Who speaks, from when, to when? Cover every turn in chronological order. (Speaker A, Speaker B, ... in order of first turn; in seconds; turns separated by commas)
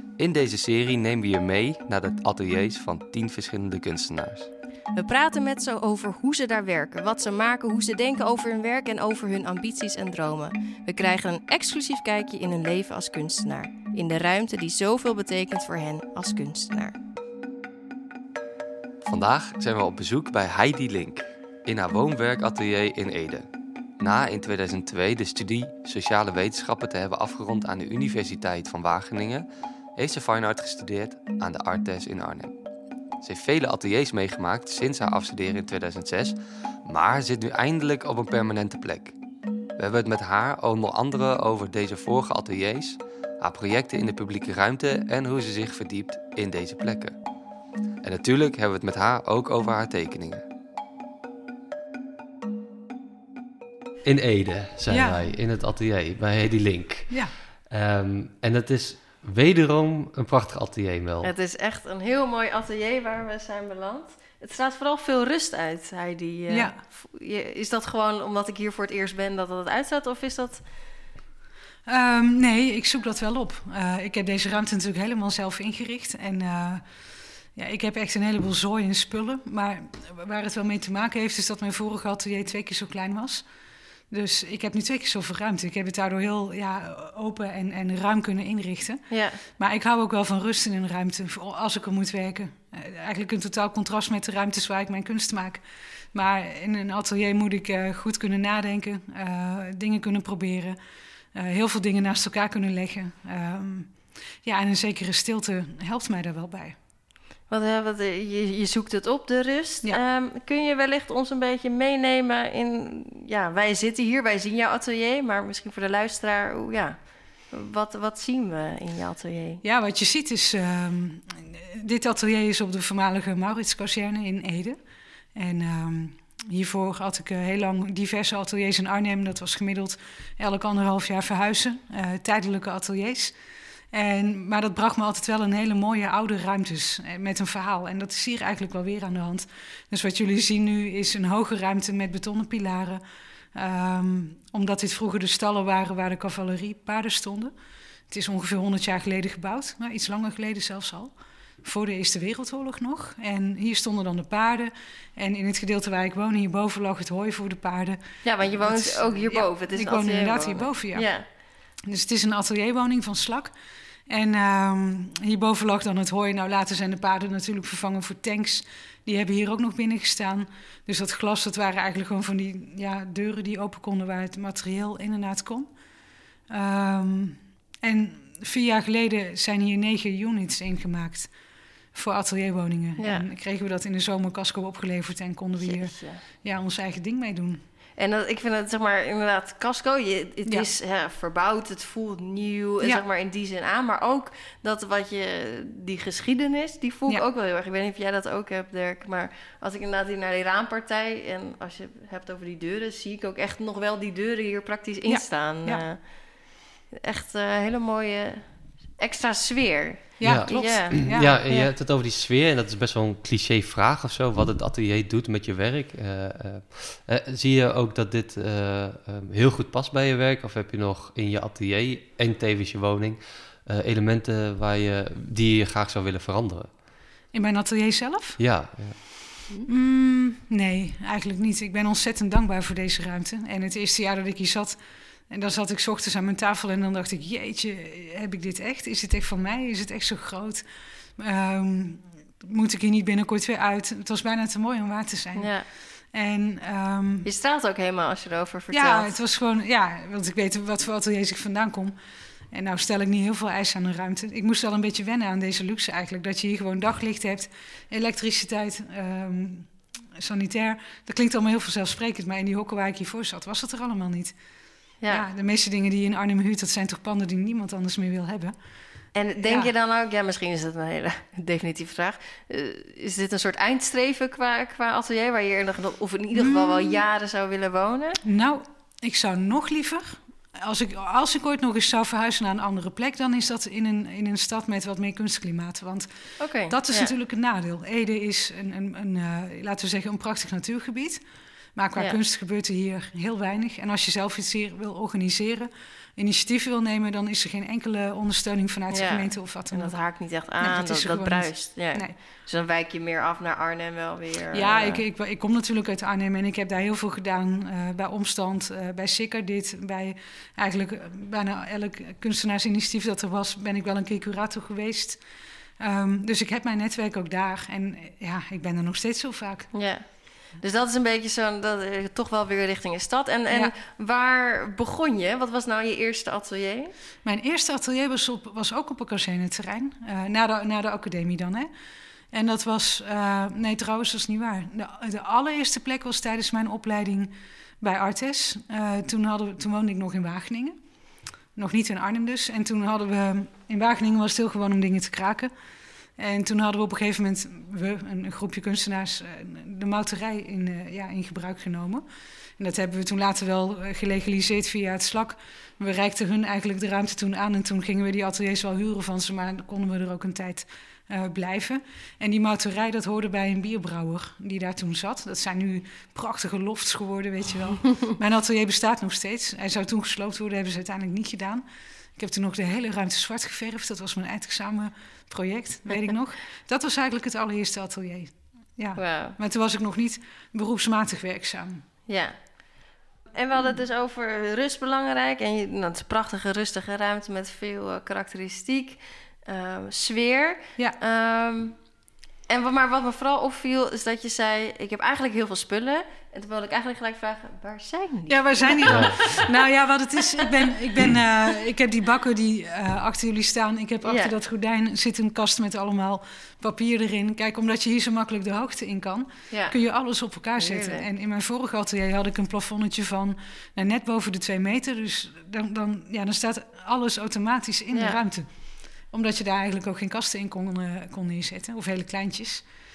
Speaker A: 0.2-4.5, Speaker B: 4.9-17.0, Speaker A: 19.0-23.5, Speaker A: 24.0-29.4, Speaker A: 30.0-32.5, Speaker A: 33.2-39.1, Speaker A: 39.8-47.1, Speaker A: 48.0-50.4, Speaker A: 54.0-61.3, Speaker C: 54.9-55.3, Speaker B: 61.2-70.7, Speaker C: 66.5-66.8, Speaker C: 71.8-76.8, Speaker C: 77.5-83.4, Speaker C: 84.1-100.8, Speaker B: 89.1-89.4, Speaker C: 101.3-106.8, Speaker B: 107.5-119.6, Speaker C: 119.6-124.8, Speaker C: 125.3-133.3, Speaker C: 133.9-143.0, Speaker C: 143.5-147.5, Speaker C: 148.1-163.5, Speaker B: 158.2-161.2, Speaker C: 164.1-175.7, Speaker C: 176.5-181.3, Speaker C: 181.9-187.6, Speaker B: 183.0-183.2, Speaker B: 185.6-186.2, Speaker B: 188.0-211.7, Speaker C: 205.1-205.8, Speaker C: 210.2-211.4, Speaker A: 210.2-226.7, Speaker C: 227.3-228.4, Speaker A: 228.4-229.0, Speaker C: 229.7-234.8, Speaker C: 235.3-240.6, Speaker C: 241.2-247.2, Speaker B: 245.3-245.7, Speaker B: 247.2-249.2, Speaker C: 248.7-251.9, Speaker C: 252.5-264.3, Speaker C: 265.1-268.5, Speaker B: 269.1-278.2, Speaker C: 269.4-269.7, Speaker C: 276.3-277.0, Speaker C: 278.2-291.2, Speaker B: 286.4-287.1, Speaker C: 291.7-299.9, Speaker B: 298.9-305.0, Speaker C: 300.6-302.1, Speaker C: 304.5-315.2, Speaker C: 315.8-319.8, Speaker B: 319.7-326.9, Speaker C: 327.2-331.7, Speaker C: 332.3-340.8, Speaker C: 341.5-345.5, Speaker C: 346.2-352.0, Speaker C: 352.6-371.6, Speaker C: 372.2-381.9, Speaker B: 378.9-379.4, Speaker B: 382.1-391.8, Speaker B: 392.5-399.5, Speaker C: 398.3-418.5, Speaker A: 398.9-399.1, Speaker B: 400.4-400.8, Speaker B: 404.0-404.3, Speaker B: 409.5-409.8, Speaker B: 410.6-411.1, Speaker B: 417.9-418.2, Speaker C: 419.0-422.7